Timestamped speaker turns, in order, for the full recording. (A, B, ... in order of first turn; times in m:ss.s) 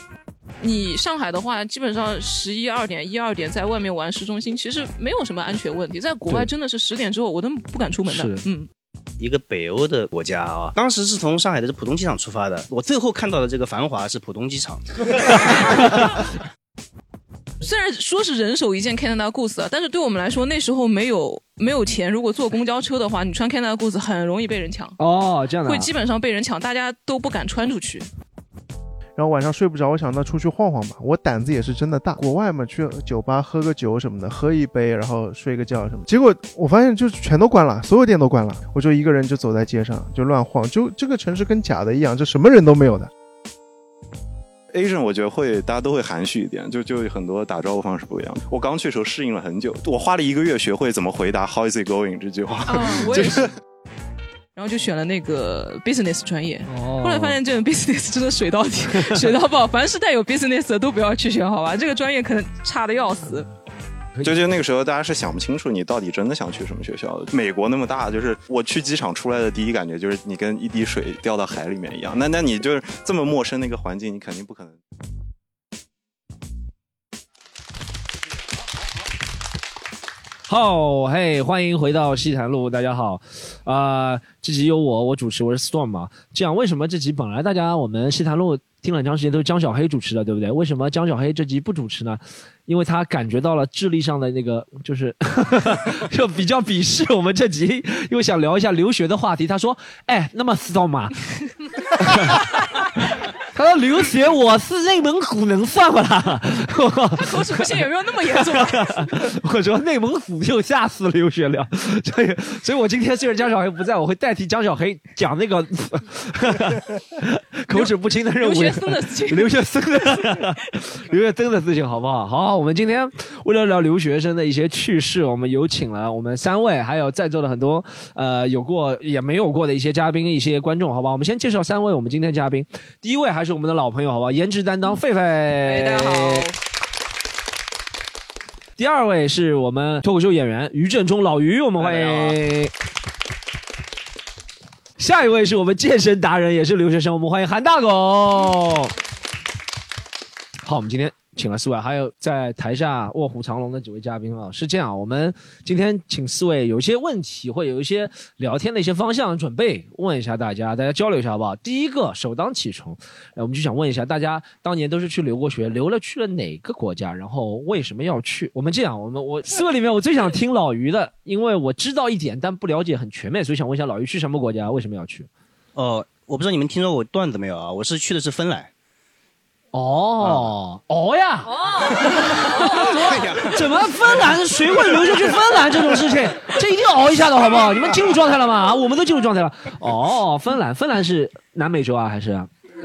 0:00.6-0:08.7 A
0:08.0-0:08.4 B
0:09.2-0:15.3 C
0:15.5-0:16.2 B
0:17.6-0:25.0 A
0:25.0-0:25.9 B
0:25.6-0:28.1 A
0:29.2-0:43.1 D
0:44.7-0:53.5 E
0:52.6-0:53.5 A
0:54.5-1:03.5 A
0:56.7-0:57.4 B
1:04.2-1:14.8 E
1:20.5-1:41.3 B
1:42.0-1:42.4 B
1:43.4-2:16.5 B
1:47.2-1:49.1 A
1:57.7-1:59.5 A
2:15.6-2:16.6 A
2:18.8-2:22.7 B
2:21.8-2:22.4 C
2:25.0-2:28.9 B
2:30.6-2:55.3 B
2:55.8-2:58.7 C
2:59.7-3:12.5 B
3:00.2-3:00.5 C
3:01.8-3:03.6 C
3:02.6-3:03.0 A